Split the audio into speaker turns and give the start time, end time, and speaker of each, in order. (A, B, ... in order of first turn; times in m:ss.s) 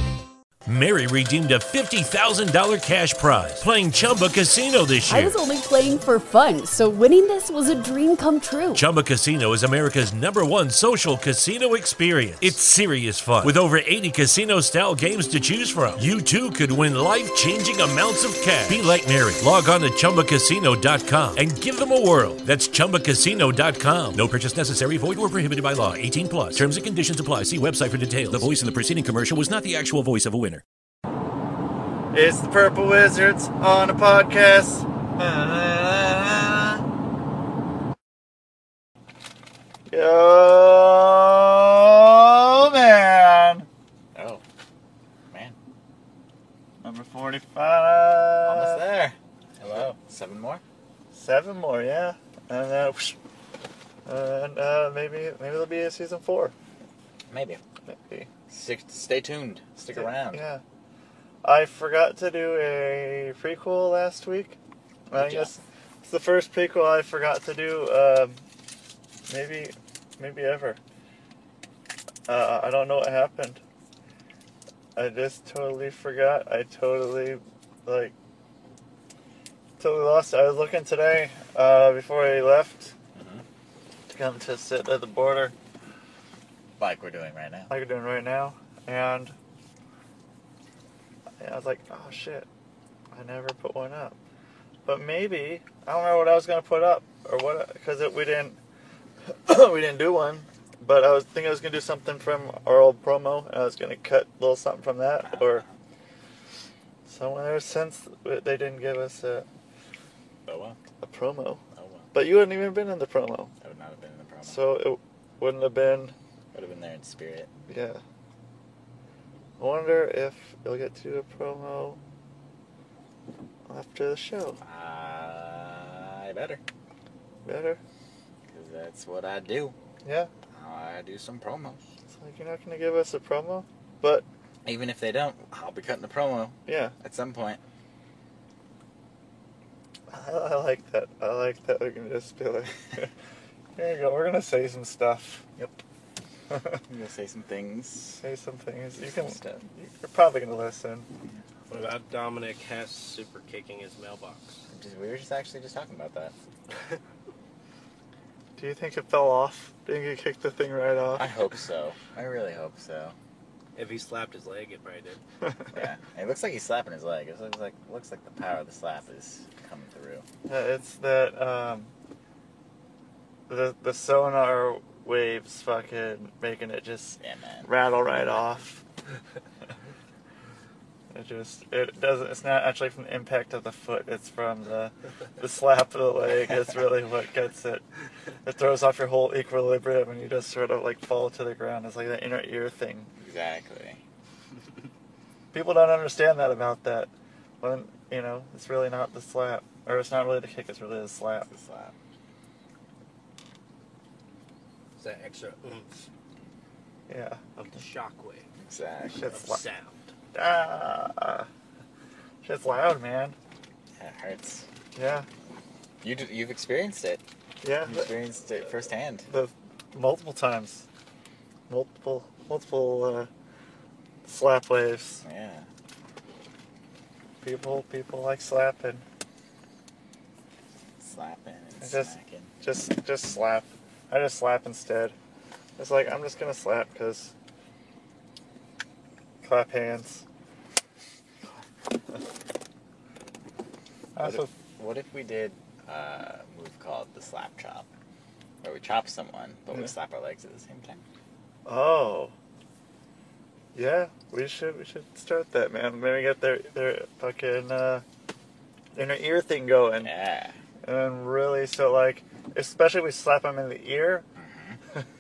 0:00.7-0:05.4 A
0:05.1-0:08.9 B
0:08.7-0:30.6 A
0:32.1-0:36.8 C
0:39.9-0:43.7 C
0:44.2-0:44.4 D
0:45.3-0:45.6 D
0:46.8-0:48.8 C
0:48.5-0:50.6 D
0:51.1-0:53.2 C
0:54.1-0:56.5 C
0:57.3-0:57.6 D
0:57.9-0:58.3 C
0:58.5-1:00.4 D
0:59.9-1:00.6 C
1:01.4-1:08.4 C
1:05.1-1:05.6 D
1:09.3-1:10.8 C
1:12.3-1:13.6 C
1:15.0-1:18.1 C
1:19.8-1:22.9 C
1:23.2-1:23.4 D
1:24.1-1:25.5 C
1:26.8-1:27.7 D
1:27.7-1:29.4 C
1:31.4-1:32.5 C
1:33.1-1:34.2 C
1:34.9-1:38.6 C
1:39.5-1:45.6 C
1:45.2-1:45.8 D
1:47.1-1:49.5 C
1:50.5-1:50.8 D
1:51.0-1:51.6 C
1:51.7-1:52.1 D
1:52.1-1:53.5 C
1:53.6-1:54.6 D
1:54.4-1:56.2 C
1:56.5-1:57.5 D
1:57.7-1:58.0 C
1:59.6-2:02.0 C
2:03.7-2:04.6 C
2:04.6-2:06.6 D
2:07.4-2:07.8 C
2:08.5-2:09.8 D
2:10.0-2:10.3 C
2:10.5-2:11.8 D
2:12.1-2:14.3 C
2:14.6-2:17.6 D
2:16.7-2:17.0 C
2:20.1-2:23.1 C
2:23.8-2:25.5 C
2:26.9-2:28.2 D
2:28.2-2:31.1 C
2:29.0-2:29.7 D
2:31.7-2:34.6 E
2:34.7-2:36.3 D
2:38.6-2:41.3 C
2:41.2-2:43.2 D
2:43.8-2:45.2 E
2:45.7-2:50.3 D
2:50.5-2:51.9 C
2:53.5-2:58.8 C
2:57.2-2:57.7 D
3:01.1-3:07.8 C
3:08.4-3:13.1 C
3:13.2-3:14.0 D
3:15.5-3:17.1 C
3:17.6-3:21.5 C
3:21.5-3:21.9 D
3:25.0-3:25.9 E
3:27.1-3:27.4 C
3:27.6-3:28.5 E
3:28.6-3:29.4 D
3:29.1-3:29.6 C
3:29.3-3:30.0 E
3:30.3-3:31.5 C
3:32.4-3:33.4 C
3:34.0-3:34.7 D
3:34.9-3:35.3 C
3:36.0-3:37.2 D
3:37.6-3:38.1 C
3:37.8-3:39.3 D
3:39.3-3:40.9 C
3:41.7-3:43.3 C
3:44.2-3:45.2 C
3:45.2-3:45.7 D
3:47.4-3:49.0 C
3:51.0-3:52.5 D
3:51.8-3:55.2 C
3:55.8-3:57.3 C
3:59.4-4:00.2 C
4:04.2-4:04.5 C
4:04.2-4:07.9 D
4:08.6-4:11.0 D
4:11.7-4:12.3 C
4:13.7-4:18.0 C
4:19.0-4:20.1 C
4:20.0-4:20.6 D
4:20.8-4:24.2 C
4:24.4-4:24.8 D